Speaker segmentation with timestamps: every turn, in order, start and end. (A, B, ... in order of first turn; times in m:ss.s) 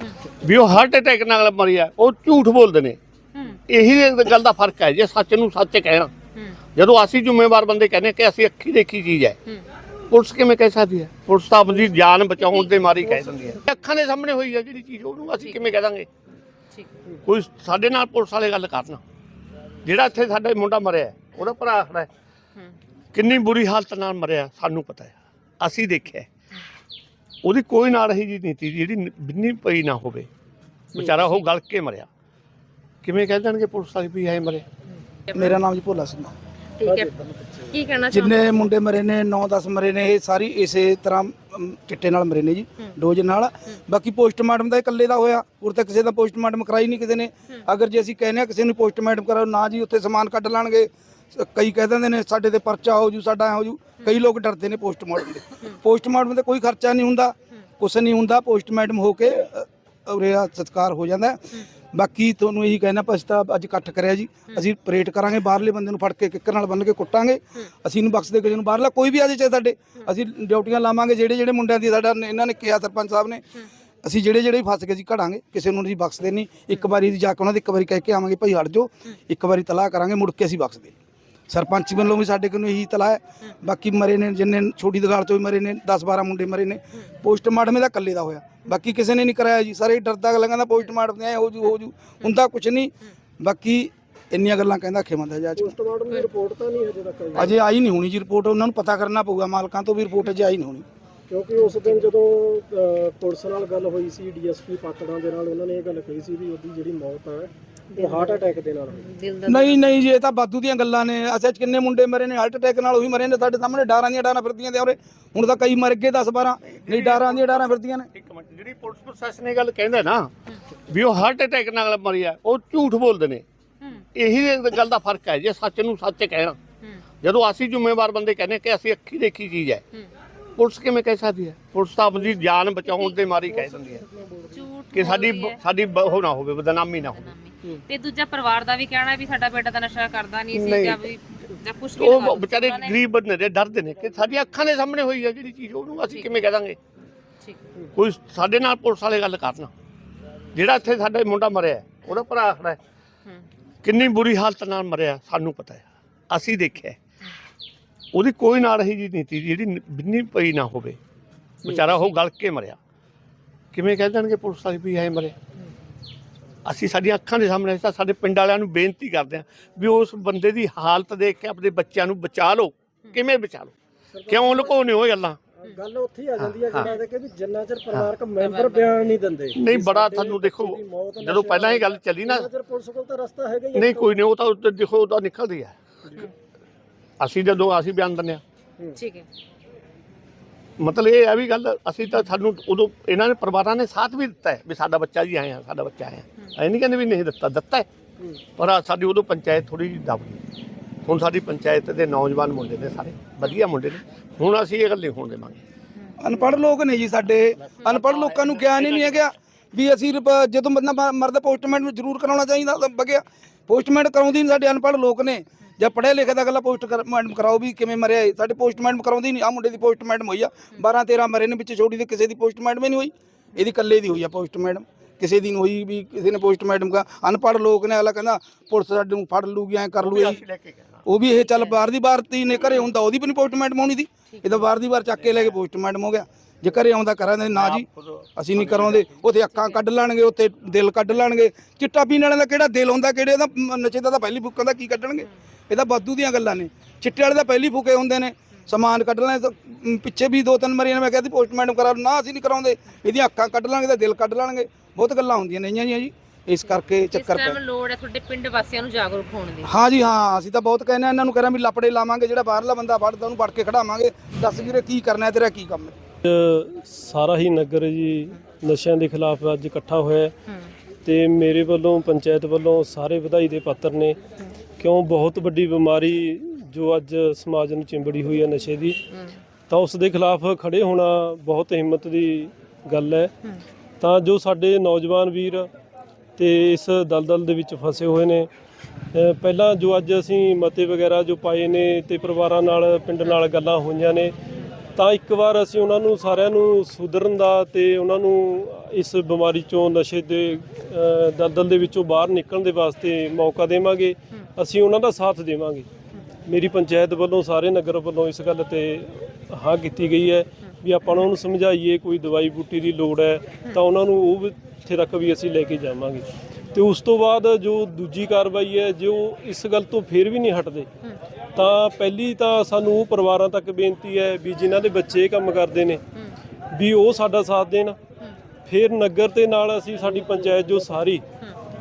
0:00.4-0:03.0 A
0:03.3-0:03.6 B
0:03.7-0:06.1 A
0:06.8-0:09.4 A
0:10.1-0:16.1 A
0:15.4-0:15.7 B
0:17.2-0:19.0 A
0:19.8-0:22.1 A
0:23.1-0:26.3 A
0:27.4-0:30.3 A
0:30.9-0:32.1 A
0:31.0-0:31.3 B
0:33.0-0:34.6 A
0:35.3-0:36.3 C
0:36.8-0:37.1 B
0:36.8-0:37.7 D
0:37.7-0:38.5 B
0:38.1-1:13.4 C
1:14.0-1:20.9 C
1:21.5-1:35.8 C
1:35.6-1:37.5 D
1:37.3-1:40.8 C
1:41.3-1:49.1 D
1:41.6-1:42.1 B
1:47.9-1:50.0 B
1:49.5-1:58.1 C
1:56.7-2:00.3 A
2:00.9-2:03.4 A
2:03.8-2:04.0 B
2:04.1-2:06.6 A
2:07.2-2:09.8 A
2:10.6-2:14.0 A
2:13.6-2:14.6 D
2:14.5-2:15.6 B
2:14.9-2:17.3 A
2:17.0-2:23.0 B
2:20.5-2:21.0 A
2:22.0-2:26.8 A
2:27.9-2:29.7 A
2:30.5-2:32.8 A
2:33.8-2:37.0 A
2:38.1-2:41.0 A
2:41.6-2:42.1 B
2:41.6-2:42.8 A
2:43.7-2:45.3 A
2:46.6-2:53.7 A
2:54.1-2:54.8 D
2:54.3-2:55.4 A
2:55.6-3:04.2 D
2:56.4-2:56.9 A
2:58.4-2:59.0 B
2:59.5-3:02.5 A
3:03.7-3:05.7 A
3:07.2-3:08.4 A
3:08.9-3:09.2 B
3:10.8-3:17.9 A
3:18.6-3:20.4 A
3:21.0-3:25.6 A
3:26.2-3:50.4 C
3:27.8-3:29.2 A
3:50.0-3:51.0 A
3:51.0-4:17.6 C
3:54.3-3:54.6 B
3:57.5-3:59.2 A
3:59.5-3:59.8 B
4:16.9-4:19.7 B
4:19.6-4:26.0 C
4:26.2-4:30.3 E
4:30.5-4:30.7 B
4:31.0-4:34.2 E
4:34.8-4:39.0 E
4:39.1-4:39.4 B
4:39.7-4:43.3 E
4:44.0-4:45.7 E
4:46.4-4:48.5 E
4:49.1-4:54.3 E
4:54.9-5:05.9 E
5:06.4-5:20.9 E
5:21.5-5:26.0 E
5:26.7-5:28.0 E
5:28.6-5:31.2 E